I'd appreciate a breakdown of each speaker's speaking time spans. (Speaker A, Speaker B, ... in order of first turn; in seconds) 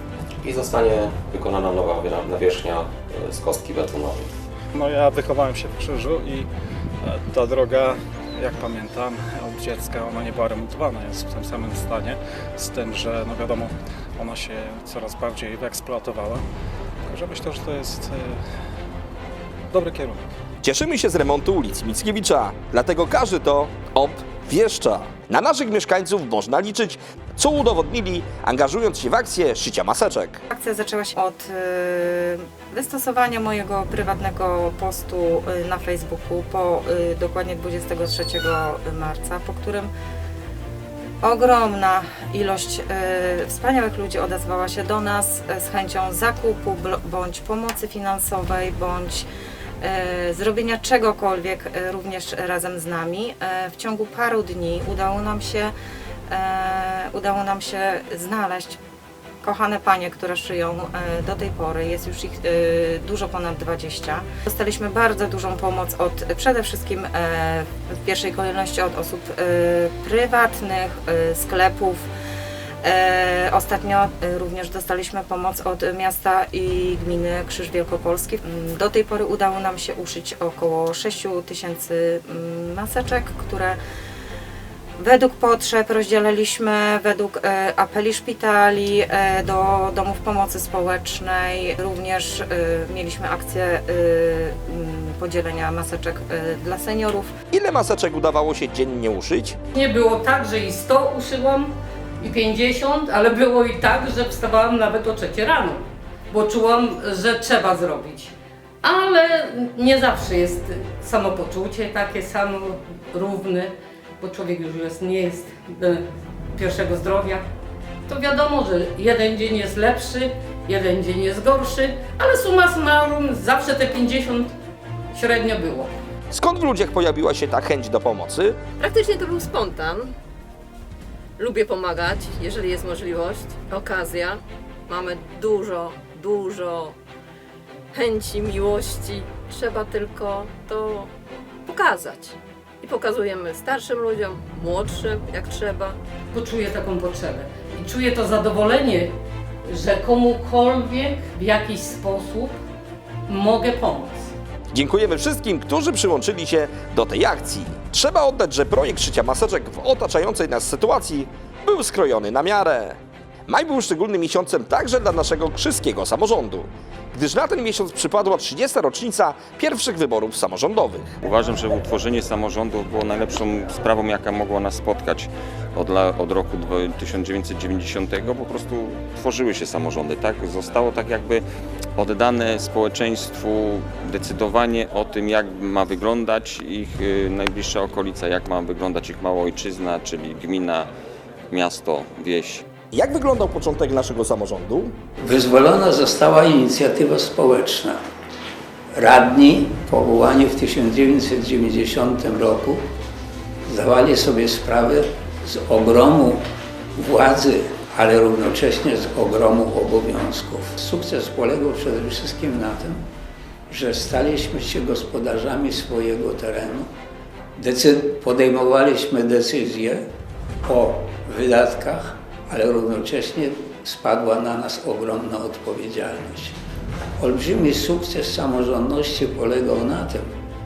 Speaker A: 0.4-4.3
Speaker B: 4.7-6.5, 7.0-16.4, 17.1-18.4, 19.7-20.2
Speaker C: 20.6-30.4, 97.5-99.6, 126.3-128.6, 154.7-163.0, 163.5-171.1, 192.9-194.9
Speaker D: 30.5-39.9, 41.2-49.2, 49.8-55.7, 56.3-58.8, 59.4-72.1, 72.8-83.8, 85.0-97.3
Speaker E: 99.8-101.7, 102.2-105.8, 106.3-108.3, 108.8-113.7, 114.2-116.0, 116.5-117.4, 118.1-124.5, 125.1-125.8, 146.3-149.1, 149.8-152.5, 153.3-154.2
Speaker F: 128.8-130.1, 131.4-136.9, 137.9-141.1, 141.7-146.0
Speaker G: 171.2-181.4, 182.0-190.9, 191.5-192.6
Speaker H: 195.2-198.0, 198.9-202.8, 203.7-206.4, 206.9-213.0, 213.7-216.9, 217.6-220.0, 220.6-226.5, 227.2-230.3